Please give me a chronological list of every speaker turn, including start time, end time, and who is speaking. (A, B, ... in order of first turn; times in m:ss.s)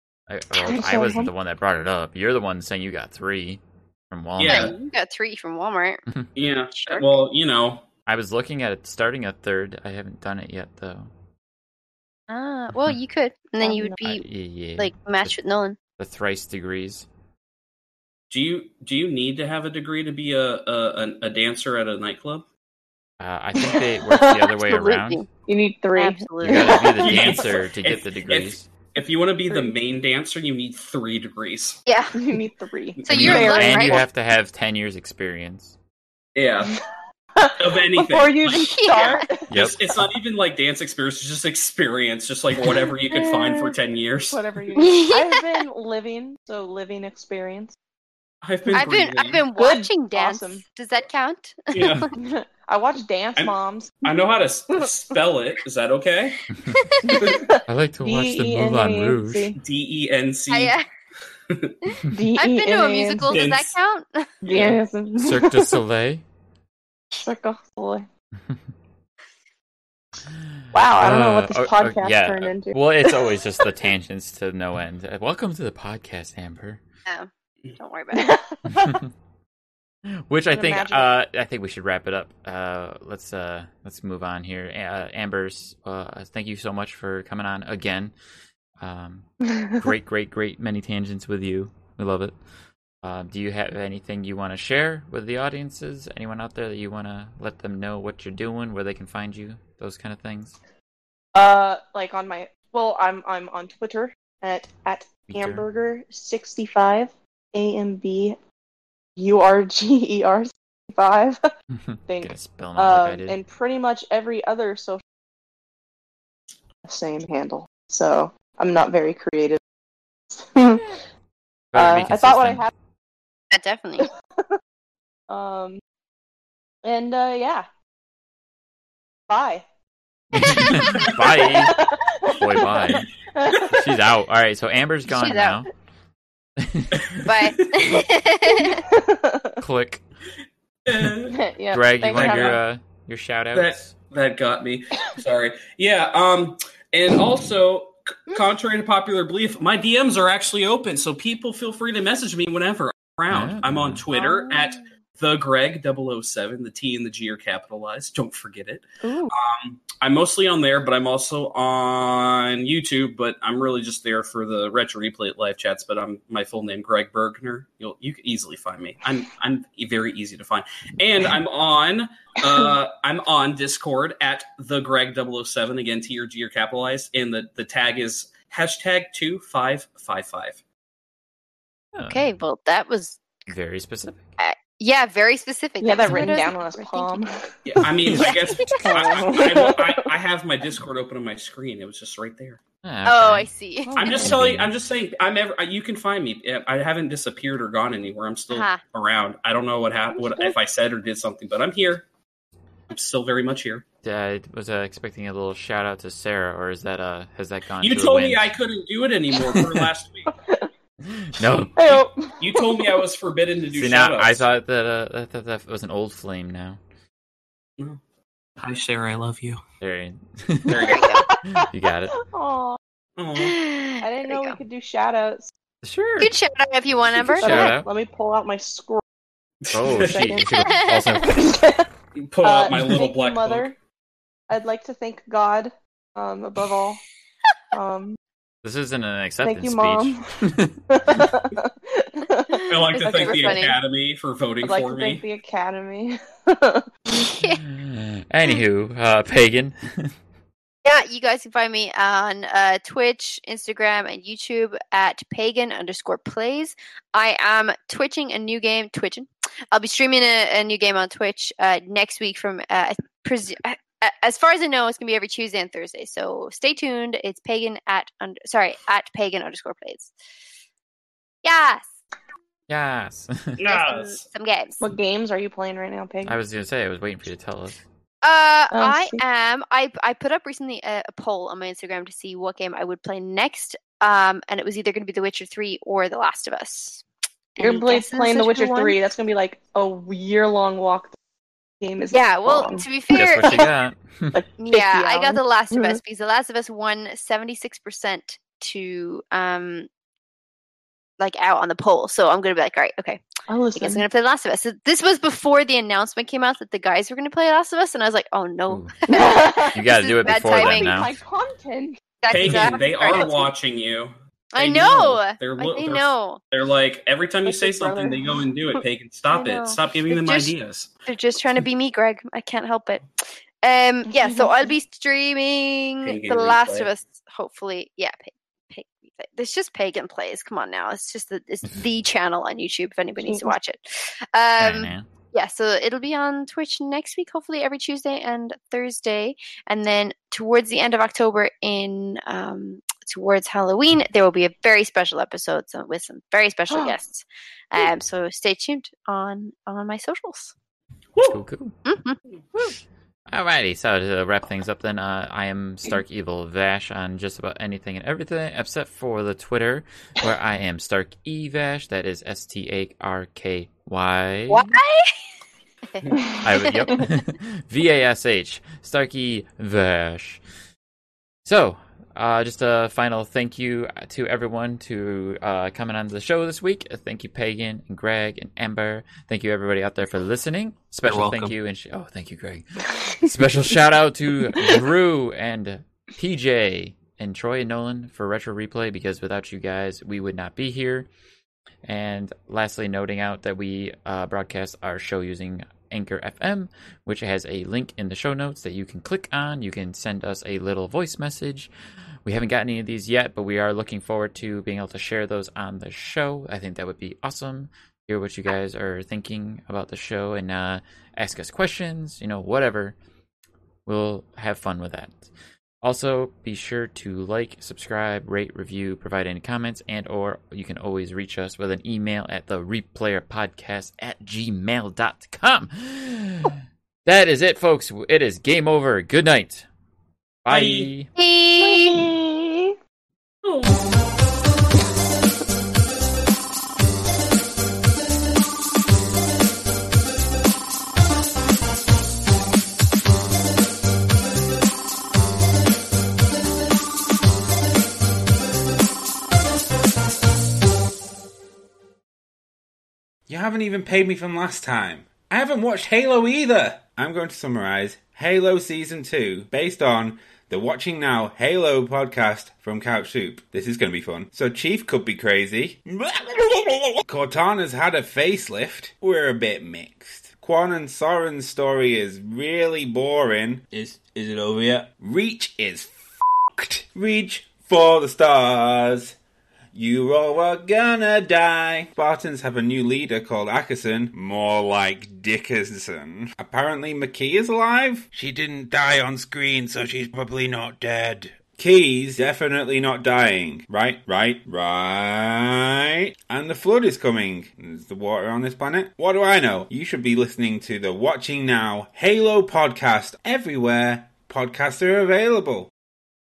0:00.3-0:04.8 A
0:00.6-0:01.3 B
0:04.4-0:04.8 C
0:04.5-0:06.0 D
0:06.4-0:07.8 C
0:06.8-0:07.1 D
0:08.1-0:11.1 A
0:12.3-0:14.2 D
0:13.6-0:14.0 B
0:14.0-0:15.4 A
0:14.8-0:15.8 D
0:16.0-0:17.1 A
0:18.3-0:22.4 C
0:23.2-0:25.2 A
0:23.6-0:24.5 B
0:24.6-0:25.3 D
0:25.5-0:27.5 B
0:26.0-0:26.8 D
0:26.4-0:28.7 A
0:26.9-0:31.8 C
0:29.0-0:29.7 B
0:31.9-0:32.2 D
0:32.2-0:34.0 B
0:33.0-0:33.6 C
0:33.0-0:34.0 D
0:33.1-0:35.7 A
0:36.4-0:36.8 C
0:37.4-0:39.5 B
0:37.6-0:44.4 C
0:38.5-0:39.3 D
0:39.5-0:39.8 A
0:42.6-0:43.8 B
0:44.3-0:47.8 B
0:44.8-0:45.6 D
0:48.4-0:49.4 C
0:48.7-0:52.1 D
0:49.6-0:50.6 B
0:51.7-0:52.1 C
0:52.2-0:54.1 B
0:53.4-0:56.4 C
0:56.6-0:56.8 A
0:56.6-0:57.2 D
0:57.1-0:59.6 B
0:57.1-0:57.4 C
0:57.7-0:59.5 A
0:59.6-1:00.8 C
1:00.5-1:00.8 D
1:02.1-1:03.4 B
1:02.4-1:04.3 D
1:03.3-1:03.7 C
1:04.4-1:04.8 C
1:04.5-1:05.8 B
1:05.2-1:06.2 A
1:07.1-1:08.1 B
1:10.3-1:16.8 A
1:10.7-1:13.7 B
1:17.1-1:18.4 D
1:18.1-1:19.0 B
1:18.7-1:19.1 A
1:20.1-1:28.1 A
1:20.5-1:21.1 B
1:28.8-1:29.3 A
1:29.8-1:32.4 A
1:33.0-1:40.6 A
1:41.4-1:48.4 B
1:45.3-1:45.7 A
1:49.2-1:51.4 B
1:51.7-1:53.4 A
1:52.1-1:55.0 B
1:56.9-1:59.6 B
2:00.3-2:01.0 B
2:01.7-2:02.7 A
2:01.8-2:02.7 B
2:03.5-2:04.1 D
2:05.3-2:05.8 B
2:06.8-2:07.7 B
2:09.3-2:09.6 B
2:10.3-2:11.8 A
2:10.4-2:13.8 B
2:10.8-2:11.1 C
2:12.4-2:13.1 A
2:13.7-2:15.7 A
2:15.1-2:15.6 D
2:16.6-2:17.3 A
2:16.9-2:17.9 C
2:17.2-2:18.8 D
2:18.5-2:19.6 B
2:19.6-2:20.0 A
2:20.9-2:21.4 C
2:21.3-2:22.6 B
2:21.7-2:23.9 A
2:22.1-2:22.6 C
2:23.5-3:00.6 C
2:33.3-2:34.0 A
2:39.0-2:39.3 B
3:02.0-3:02.4 A
3:02.1-3:03.2 D
3:03.5-3:04.3 A
3:04.4-3:07.3 D
3:05.8-3:08.3 B
3:06.1-3:06.3 A
3:07.7-3:12.6 C
3:08.1-3:09.1 A
3:08.2-3:08.8 D
3:08.8-3:10.0 B
3:12.8-3:13.5 A
3:13.0-3:14.3 D
3:13.9-3:14.4 B
3:14.0-3:22.0 C
3:14.1-3:14.7 A
3:18.5-3:18.8 D
3:20.2-3:20.5 B
3:22.9-3:23.8 C
3:24.0-3:28.6 A
3:27.8-3:30.3 C
3:29.4-3:29.9 A
3:31.0-3:32.0 A
3:31.8-3:33.0 B
3:32.4-3:34.5 C
3:33.7-3:36.8 A
3:38.6-3:39.6 C
3:39.8-3:40.9 A
3:40.7-3:41.1 C
3:40.8-3:41.2 D
3:40.8-3:41.7 B
3:41.6-3:42.2 A
3:42.3-3:42.8 B
3:43.2-3:43.6 C
3:43.4-3:44.6 D
3:44.0-3:45.5 B
3:45.8-3:46.3 A
3:46.2-3:47.7 D
3:47.2-3:49.0 B
3:47.4-3:47.9 A
3:49.6-3:50.4 C
3:49.7-3:51.6 A
3:49.8-3:50.5 B
3:50.7-3:51.2 D
3:51.3-3:51.9 B
3:52.2-3:53.7 C
3:52.4-3:53.7 B
3:54.5-3:57.0 B
3:57.7-3:58.2 B
3:58.6-4:01.3 A
3:59.4-4:00.4 B
4:00.9-4:03.7 B
4:02.5-4:03.8 D
4:02.7-4:05.2 C
4:04.6-4:06.9 B
4:07.2-4:07.6 D
4:07.5-4:10.2 A
4:10.8-4:30.1 D
4:31.4-4:31.8 D
4:32.7-4:33.6 A
4:33.6-4:34.3 C
4:34.3-4:34.9 D
4:34.8-4:36.4 B
4:36.2-4:37.8 A
4:38.2-4:47.0 D
4:38.7-4:39.2 B
4:47.6-4:49.0 D
4:47.6-4:51.2 B
4:51.8-4:53.7 B
4:52.1-4:53.6 D
4:53.2-4:54.4 A
4:54.3-4:56.0 B
4:54.6-4:59.9 D
5:01.2-5:03.2 D
5:03.5-5:04.0 B
5:03.8-5:11.0 D
5:08.7-5:09.0 A
5:09.1-5:09.8 B
5:09.7-5:11.2 A
5:10.4-5:13.3 B
5:12.2-5:13.5 D
5:12.3-5:20.9 C
5:14.5-5:16.4 D
5:17.4-5:18.4 B
5:19.3-5:20.5 D
5:21.1-5:23.0 D
5:23.6-5:50.5 D
5:24.1-5:24.8 B
5:26.0-5:26.9 C
5:33.2-5:33.6 B
5:34.6-5:35.1 A
5:46.7-5:47.0 B
5:51.2-5:51.4 C
5:51.2-5:51.8 A
5:51.8-5:52.2 D
5:52.6-6:04.7 A
6:04.5-6:05.2 D
6:05.8-6:06.9 D
6:06.1-6:07.0 B
6:06.4-6:10.4 A
6:11.4-6:31.1 A
6:21.1-6:21.6 C
6:31.8-6:41.7 A
6:42.2-6:53.0 A
6:53.9-6:55.3 A
6:55.8-7:09.7 A
7:10.4-7:11.1 A
7:10.5-7:10.9 C
7:11.2-7:12.0 D
7:11.6-7:12.8 B
7:13.4-7:13.8 C
7:33.3-7:55.9 E
7:56.6-7:59.2 E
7:59.7-8:25.7 E